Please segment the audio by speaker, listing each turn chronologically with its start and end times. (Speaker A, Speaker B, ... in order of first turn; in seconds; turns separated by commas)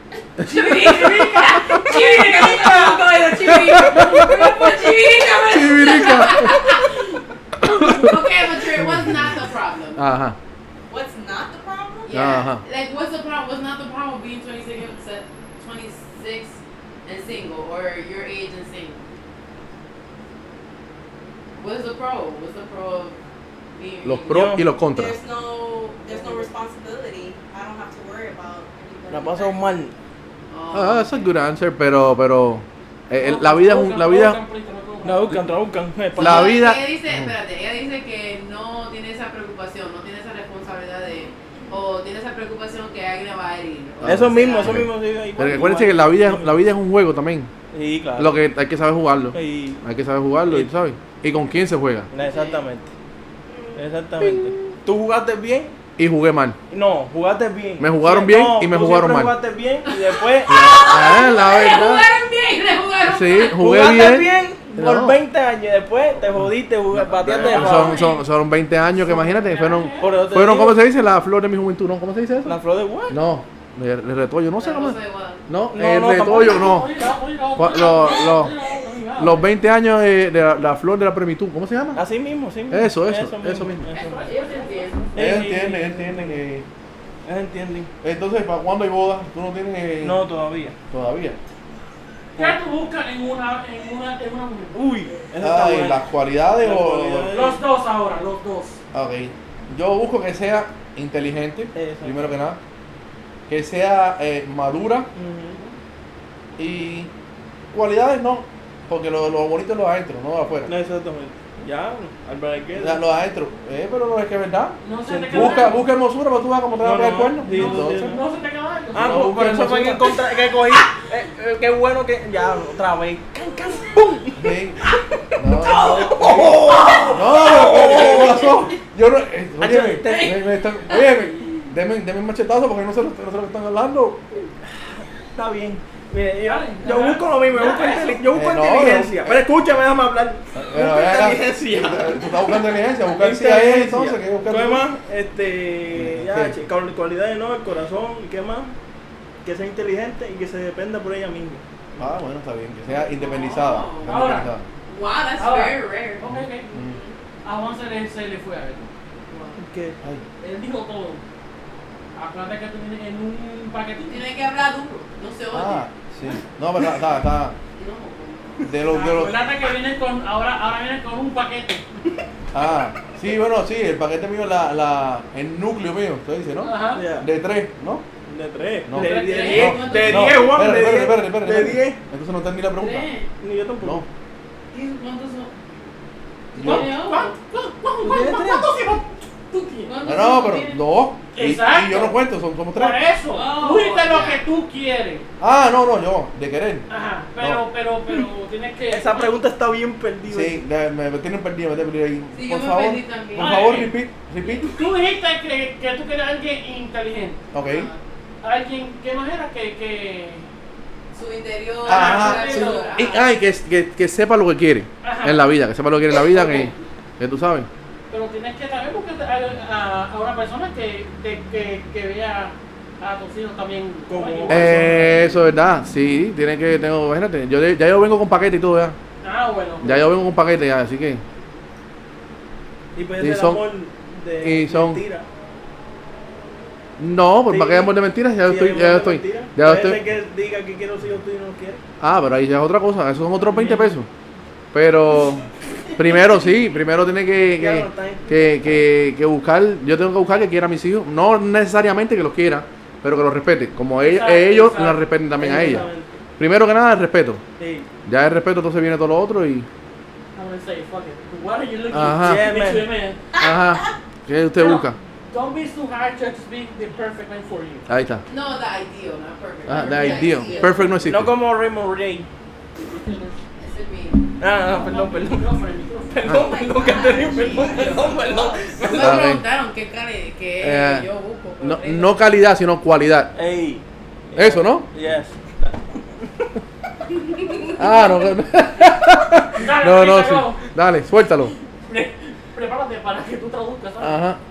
Speaker A: 0.4-6.9, Speaker B: 0.5-6.6, Speaker C: 0.7-2.0, Speaker D: 3.4-4.6, Speaker D: 5.5-6.6, Speaker D: 7.6-9.4, Speaker A: 7.8-10.0, Speaker D: 9.9-10.4, Speaker B: 10.9-12.1, Speaker A: 12.1-19.0, Speaker D: 12.1-12.6, Speaker A: 21.6-23.1, Speaker A: 23.7-24.6, Speaker D: 24.0-25.2, Speaker E: 24.3-24.7, Speaker B: 24.8-29.7, Speaker A: 26.1-26.5, Speaker E: 29.1-29.9, Speaker A: 30.5-31.3, Speaker D: 30.7-34.4, Speaker C: 33.2-35.4, Speaker E: 35.0-36.5, Speaker D: 36.2-37.3, Speaker A: 36.2-44.8, Speaker B: 41.2-41.8, Speaker D: 44.0-47.5, Speaker E: 44.0-46.5, Speaker E: 47.7-48.4, Speaker D: 48.2-52.1, Speaker E: 49.3-49.8, Speaker E: 52.1-52.9, Speaker A: 52.2-52.6, Speaker B: 53.5-53.8, Speaker E: 53.8-55.7, Speaker D: 56.0-56.6, Speaker E: 56.7-60.5, Speaker D: 57.8-59.3, Speaker A: 59.9-63.6, Speaker D: 60.5-62.0, Speaker D: 63.1-65.2, Speaker E: 63.5-68.0, Speaker D: 66.9-72.6, Speaker A: 67.4-68.2, Speaker C: 69.0-70.1, Speaker E: 70.0-70.8, Speaker E: 72.4-73.2, Speaker D: 73.1-76.9, Speaker A: 74.6-75.4, Speaker E: 75.7-76.7, Speaker C: 76.3-79.5, Speaker D: 77.5-78.5, Speaker D: 79.2-82.0, Speaker E: 81.9-84.2, Speaker D: 82.7-83.8, Speaker C: 83.9-86.3, Speaker A: 83.9-85.1, Speaker E: 85.1-85.9, Speaker D: 85.2-86.7, Speaker E: 87.2-87.9, Speaker D: 88.0-90.2, Speaker E: 90.0-90.7, Speaker D: 90.9-91.4, Speaker C: 92.3-94.8, Speaker E: 94.7-96.0, Speaker D: 95.4-97.3, Speaker E: 96.6-97.6, Speaker C: 97.3-98.8, Speaker D: 98.9-102.6, Speaker E: 101.7-102.4, Speaker D: 103.5-105.1, Speaker E: 105.1-105.6, Speaker D: 106.6-107.1, Speaker D: 107.7-110.7, Speaker E: 110.7-113.0, Speaker D: 112.8-118.2, Speaker C: 114.8-115.8, Speaker E: 115.1-115.7, Speaker E: 116.8-118.2, Speaker C: 117.4-119.3, Speaker E: 118.9-125.0, Speaker D: 118.9-120.1, Speaker D: 124.3-124.8, Speaker D: 125.4-126.5, Speaker E: 125.6-128.5, Speaker B: 125.9-127.1, Speaker D: 127.1-134.2, Speaker E: 129.6-130.4, Speaker E: 135.3-148.7, Speaker C: 136.4-138.2, Speaker D: 138.3-139.4, Speaker D: 140.5-144.8, Speaker D: 145.9-146.6, Speaker E: 149.4-152.0, Speaker D: 152.0-154.7, Speaker A: 152.9-154.2, Speaker C: 154.1-154.5, Speaker A: 154.9-156.2, Speaker C: 155.4-156.7, Speaker D: 156.3-157.0, Speaker B: 156.8-157.0, Speaker C: 157.4-158.9, Speaker A: 159.3-159.6, Speaker E: 159.6-159.9, Speaker C: 160.4-161.2, Speaker C: 162.1-164.2, Speaker A: 164.1-165.8, Speaker D: 165.5-167.6, Speaker A: 167.7-168.7, Speaker D: 168.6-169.4, Speaker C: 168.9-171.8, Speaker D: 172.5-178.0, Speaker C: 176.6-177.0, Speaker E: 176.9-177.3, Speaker E: 178.2-182.0, Speaker D: 178.8-183.1, Speaker C: 178.9-180.2, Speaker A: 179.2-180.4, Speaker A: 182.8-183.3, Speaker E: 183.4-184.0, Speaker A: 184.7-185.5, Speaker D: 186.5-186.9, Speaker A: 186.6-187.3, Speaker C: 186.6-189.9, Speaker E: 188.0-188.7, Speaker A: 189.8-190.8, Speaker D: 190.0-193.0, Speaker C: 191.3-192.2, Speaker C: 192.7-195.2, Speaker A: 193.3-194.4, Speaker D: 195.4-196.8, Speaker C: 196.9-199.3, Speaker D: 197.4-197.6, Speaker E: 198.9-200.6, Speaker D: 200.3-204.7, Speaker A: 202.3-203.7, Speaker C: 203.4-207.4, Speaker D: 207.5-207.9, Speaker A: 207.6-208.0, Speaker C: 208.4-210.4, Speaker A: 211.1-213.2, Speaker C: 211.9-213.0, Speaker D: 211.9-217.7, Speaker C: 215.0-215.5, Speaker C: 216.3-216.7, Speaker C: 218.1-225.0, Speaker E: 224.1-225.3, Speaker D: 224.5-229.0, Speaker C: 229.2-230.0, Speaker D: 229.8-231.2, Speaker E: 232.9-235.2, Speaker D: 233.2-233.6, Speaker D: 234.4-235.0, Speaker D: 237.0-240.0, Speaker E: 237.5-241.8, Speaker D: 242.0-244.1, Speaker E: 243.6-243.8, Speaker D: 244.7-257.4, Speaker E: 247.6-248.8, Speaker C: 254.0-255.0, Speaker E: 255.4-256.1, Speaker E: 257.6-257.9, Speaker D: 258.1-259.7, Speaker C: 260.3-263.2, Speaker D: 261.9-262.5, Speaker E: 262.2-262.9, Speaker B: 263.3-263.9, Speaker D: 263.4-264.9, Speaker C: 264.6-267.8, Speaker D: 267.9-268.2, Speaker A: 268.3-270.9, Speaker D: 269.7-271.3, Speaker B: 269.8-270.9, Speaker E: 271.1-272.3, Speaker C: 273.0-273.3, Speaker A: 273.6-274.2, Speaker E: 274.4-275.5, Speaker C: 274.7-276.2, Speaker E: 276.1-279.2, Speaker B: 276.2-278.8, Speaker C: 277.5-278.0, Speaker A: 278.8-282.2, Speaker D: 278.9-279.4, Speaker D: 280.6-281.1, Speaker D: 281.6-283.3, Speaker E: 283.3-286.3, Speaker D: 284.3-284.9, Speaker D: 287.8-291.5, Speaker C: 289.5-290.6, Speaker C: 291.9-294.2, Speaker D: 294.0-294.4